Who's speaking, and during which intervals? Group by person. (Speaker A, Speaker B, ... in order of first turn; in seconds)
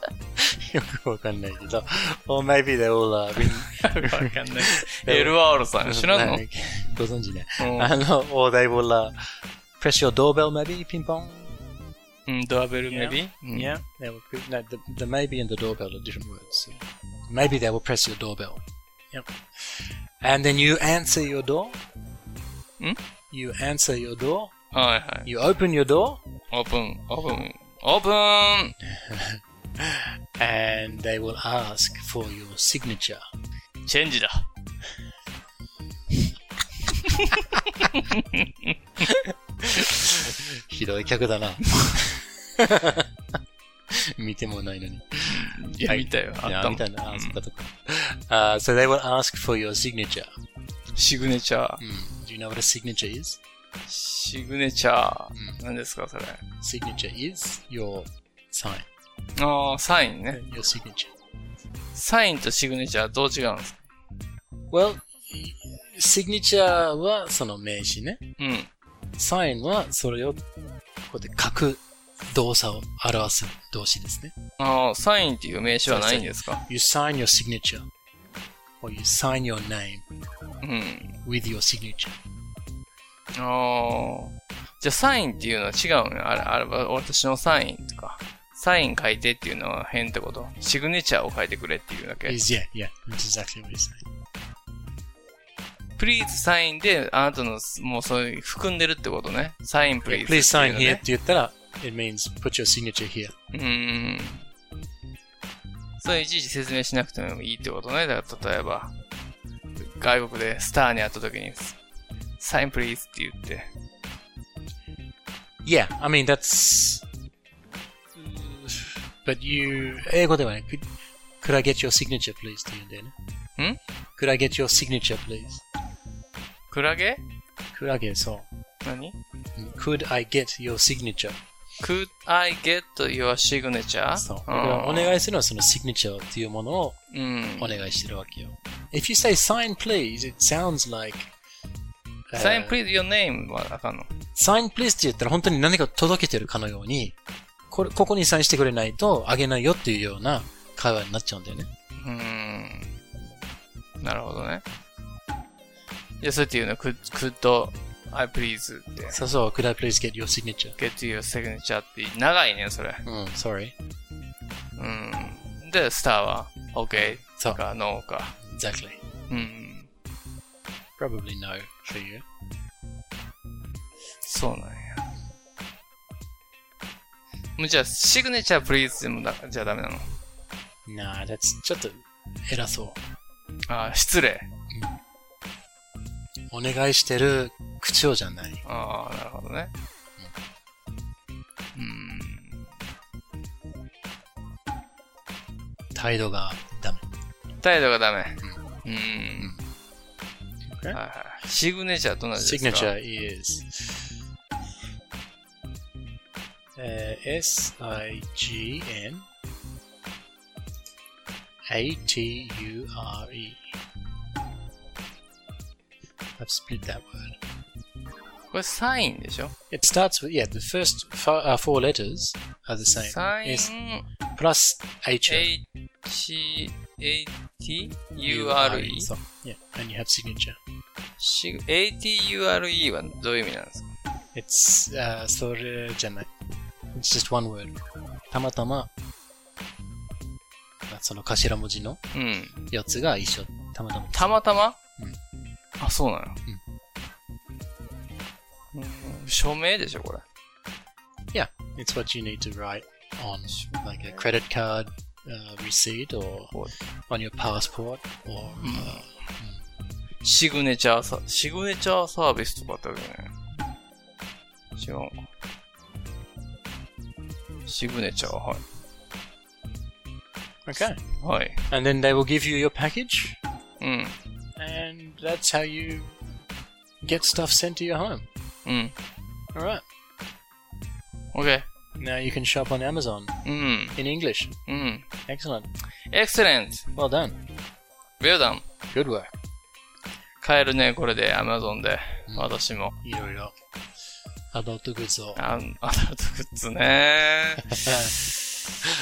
Speaker A: 0.4-11.5, 12.9-21.8, 23.3-24.5, 25.2-26.2, 28.9-33.2, 39.0-43.1, 43.9-50.3, 51.8-53.4, 55.3-55.6, 56.6-58.9, 60.3-61.1, 64.7-68.2, 69.2-70.4, 71.1-74.3, 75.8-77.9, 78.8-80.0, 81.2-82.2, 92.2-94.0, 100.0-103.3, 115.6-117.0, 118.2-120.8, 121.4-123.1, 124.2-125.6, 127.7-128.5, 129.6-131.4, 134.1-137.0, 137.6-141.3, 142.3-142.8, 144.3-147.2, 147.7-151.7, 159.1-160.8, 163.0-163.7, 166.9-167.6, 168.4-169.0, 171.0-172.2, 180.8-183.0, 186.5-188.6, 195.9-197.0, 200.7-201.0, 202.3-204.1, 206.8-209.2, 211.7-213.7, 216.4-217.4, 219.7-223.7, 224.3-225.5, 228.2-230.6, 234.3-236.3, 236.9-237.8, 238.3-238.9, 240.9-242.0, 242.7-244.3, 251.3-256.6, 257.1-259.6, 270.6-271.0, 271.7-273.4, 274.6-276.1, 277.0-278.2, 279.5-279.8, 282.0-283.4, 283.9-284.6, 285.3-285.7, 286.9-287.4, 288.9-289.3, 292.3-293.5, 294.5-295.4, 297.8-298.2
Speaker B: 3.4-6.4, 7.6-7.9, 12.3-13.8, 24.7-25.3, 26.5-28.8, 33.8-34.5, 36.9-38.7, 45.2-47.4, 51.0-51.8, 53.9-56.4, 59.4-60.4, 61.9-63.8, 68.4-68.7, 74.6-76.6, 80.6-81.1, 83.3-92.4, 96.0-101.0, 103.5-104.5, 106.0-109.0, 109.8-111.8, 112.4-113.7, 126.7-127.2, 128.8-129.2, 131.8-135.2, 137.1-137.8, 142.3-144.1, 152.0-152.9, 154.0-154.6, 156.2-159.2, 160.8-163.0, 164.8-168.4, 169.3-169.9, 174.2-175.0, 177.6-180.1, 183.7-184.5, 188.6-189.7, 191.7-192.7, 197.6-199.6, 200.9-202.9, 218.5-219.5, 222.9-224.1, 225.3-229.1, 231.2-233.9, 242.1-242.6, 244.1-244.8, 245.8-246.4, 248.7-250.2, 253.5-254.2, 258.6-259.1, 260.2-263.4, 264.7-265.3, 267.6-268.6, 271.2-271.7, 273.8-274.2, 278.6-278.9, 281.3-281.6, 283.4-284.0, 284.7-285.1, 286.1-286.9, 288.2-288.6, 290.4-292.9, 295.4-298.2